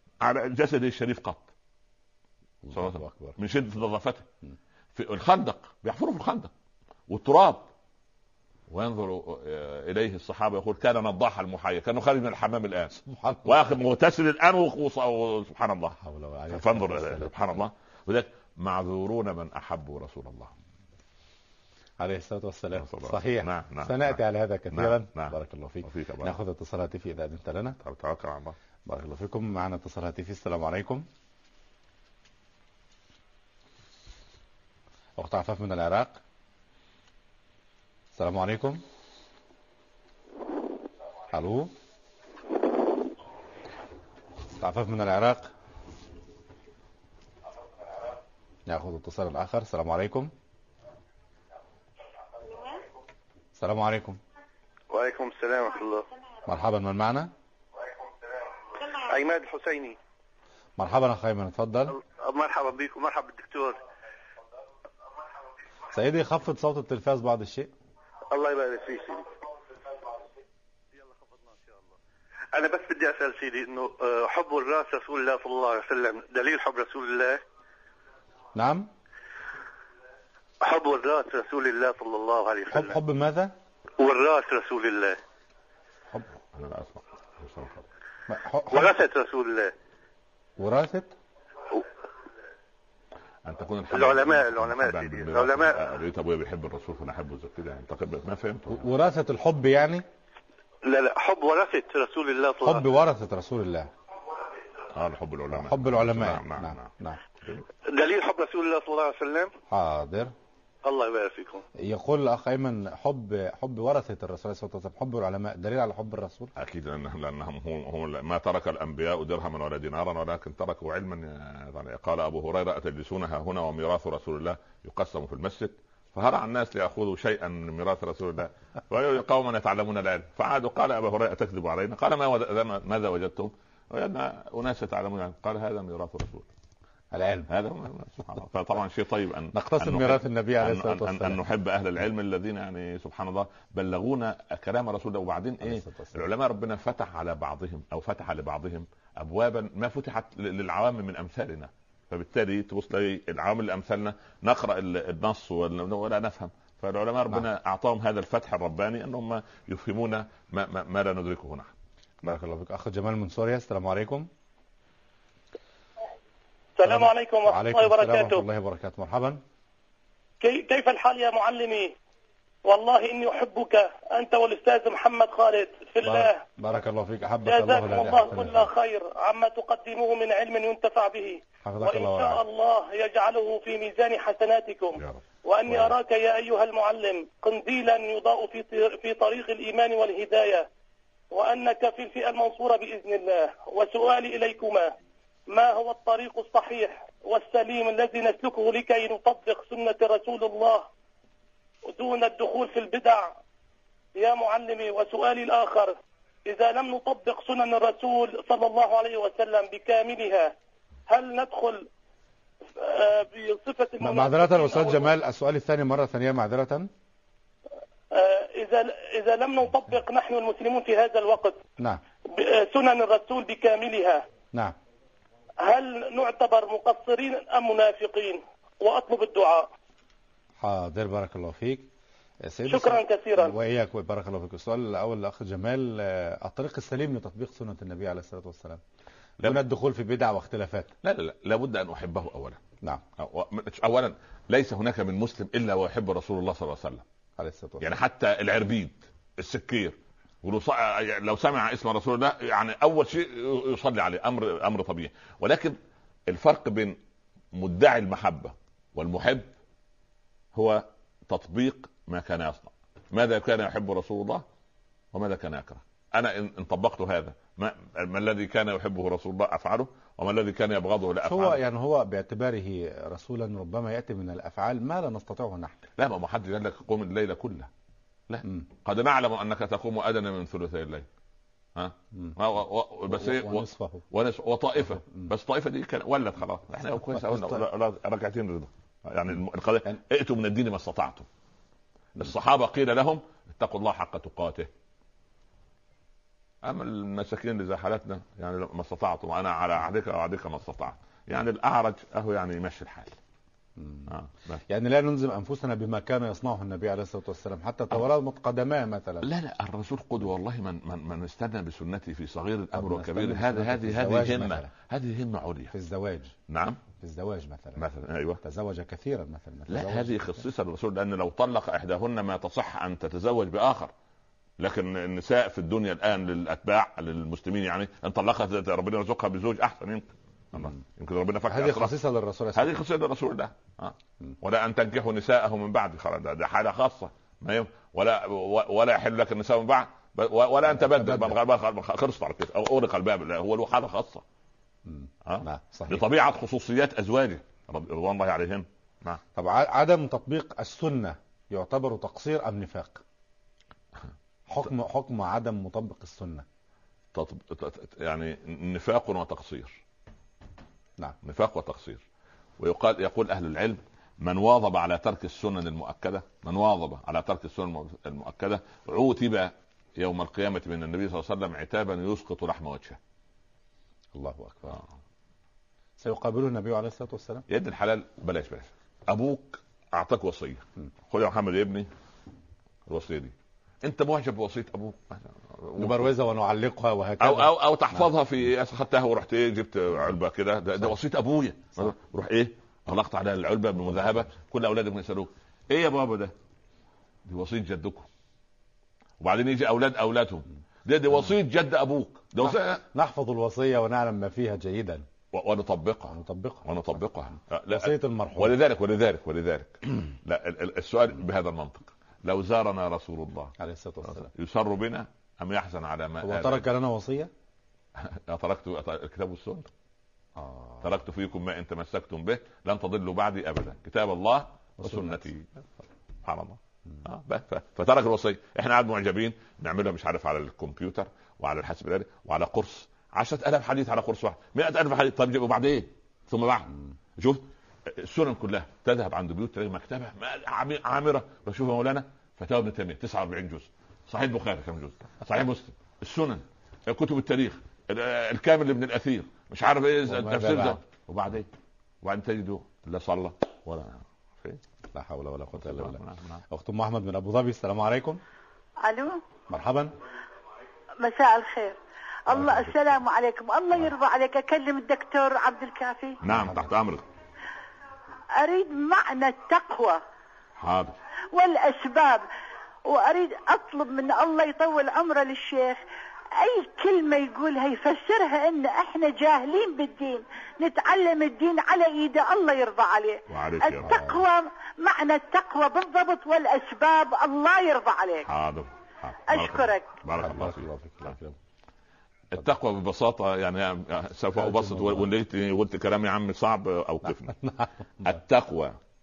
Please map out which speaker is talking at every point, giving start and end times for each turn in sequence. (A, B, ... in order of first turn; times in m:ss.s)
0:00.2-0:01.5 A
0:02.6-0:03.4 B
0:02.7-0:04.3 A
0:04.9-0:06.5 A
0:07.1-0:07.7 A
0:08.7-0:15.9 A
0:12.9-0:13.5 B
0:15.9-0:17.3 B
0:16.5-0:20.5 A
0:22.0-0:27.8 B
0:22.8-0:24.2 A
0:24.7-0:26.3 A
0:27.8-0:28.6 A
0:28.9-0:31.0 B
0:35.2-0:36.2 B
0:38.2-0:38.8 B
0:41.3-0:41.7 B
0:44.6-0:45.5 B
0:48.7-0:50.3 B
0:53.6-0:54.2 B
0:54.9-0:56.1 C
0:56.4-0:57.3 B
0:58.9-1:00.0 C
1:00.8-1:02.0 B
1:02.0-1:03.8 C
1:05.9-1:07.7 B
1:08.3-1:09.3 C
1:11.1-1:11.8 C
1:12.5-1:17.4 C
1:18.5-1:18.9 B
1:20.6-1:23.0 C
1:22.7-1:23.5 B
1:24.0-1:25.2 C
1:26.1-1:27.8 A
1:28.3-1:28.9 B
1:28.7-1:29.7 C
1:30.6-1:31.1 B
1:33.4-1:38.8 A
1:33.9-1:35.8 C
1:38.7-1:40.0 B
1:40.8-1:42.9 C
1:42.6-1:43.9 B
1:44.9-1:46.9 A
1:45.5-1:47.2 B
1:47.9-1:49.5 C
1:49.7-1:50.3 B
1:50.8-1:51.6 C
1:51.8-1:56.5 B
1:56.6-2:16.5 A
2:17.1-2:17.5 B
2:17.5-2:41.7 A
2:19.5-2:21.4 B
2:25.6-2:26.2 B
2:42.2-2:44.3 B
2:46.8-2:48.4 D
2:46.8-2:49.4 B
2:50.4-2:51.9 D
2:52.6-2:56.4 D
2:56.0-2:58.7 B
2:57.5-3:10.7 D
3:01.6-3:02.4 B
3:05.0-3:05.9 A
3:11.3-3:14.9 D
3:15.5-3:20.9 D
3:21.9-3:23.4 D
3:24.2-3:30.5 D
3:31.1-3:31.9 D
3:32.8-3:35.1 D
3:34.0-3:36.9 B
3:38.1-3:41.6 D
3:42.3-3:44.2 D
3:45.6-3:49.7 D
3:50.6-3:51.8 B
3:52.4-3:58.8 B
3:52.7-3:53.6 D
3:59.4-4:00.9 B
4:01.0-4:02.6 A
4:03.2-4:07.0 A
4:07.4-4:08.0 B
4:07.8-4:15.8 A
4:16.3-4:17.0 A
4:17.5-4:19.5 A
4:20.5-4:24.4 A
4:25.1-4:31.6 A
4:31.2-4:35.8 B
4:36.0-4:37.7 A
4:38.3-4:41.1 A
4:41.8-4:51.3 A
4:43.1-4:44.0 B
4:47.2-4:47.6 B
4:52.2-4:54.7 A
4:56.6-5:03.2 A
5:03.8-5:04.1 B
5:04.1-5:04.6 A
5:04.7-5:09.3 B
5:09.2-5:15.7 A
5:12.7-5:14.7 B
5:15.7-5:16.3 B
5:16.5-5:16.8 A
5:17.0-5:17.9 B
5:17.8-5:18.4 A
5:18.4-5:20.2 B
5:19.7-5:23.9 A
5:24.6-5:32.0 A
5:31.5-5:32.8 B
5:32.5-5:44.2 A
5:40.7-5:41.4 B
5:44.8-5:46.0 B
5:45.2-5:49.2 A
5:49.4-5:53.0 B
5:54.5-5:56.4 B
5:57.1-5:59.8 A
6:01.2-6:02.0 A
6:02.6-6:13.0 A
6:14.1-6:14.8 B
6:16.0-6:17.4 B
6:17.5-6:21.9 A
6:22.9-6:26.1 A
6:25.8-6:28.0 B
6:27.2-6:36.3 A
6:37.2-6:38.1 A
6:39.2-6:42.8 A
6:42.4-6:45.0 B
6:45.3-6:46.1 A
6:46.1-6:47.0 B
6:46.6-6:53.5 A
6:47.7-6:48.5 B
6:53.6-6:54.3 B
6:54.0-6:56.7 A
6:56.2-6:57.3 B
6:58.0-6:59.7 A
7:00.4-7:00.8 B
7:00.8-7:05.6 A
7:04.8-7:05.2 B
7:06.2-7:31.5 A
7:30.1-7:30.8 B
7:32.0-7:34.6 A
7:34.9-7:38.2 B
7:35.5-7:36.4 A
7:38.8-7:39.2 E
7:39.5-7:39.9 B
7:41.0-7:46.2 E
7:42.3-7:42.8 B
7:46.2-7:47.0 A
7:46.2-7:46.7 B
7:48.4-7:50.0 E
7:50.6-7:50.9 A
7:51.3-7:52.2 E
7:52.9-7:55.8 E
7:56.4-8:08.3 E
8:03.3-8:04.0 A
8:03.8-8:04.2 B
8:08.2-8:11.1 A
8:09.3-8:09.9 E
8:10.2-8:11.4 B
8:12.3-8:17.4 A
8:14.4-8:15.0 B
8:18.0-8:18.8 A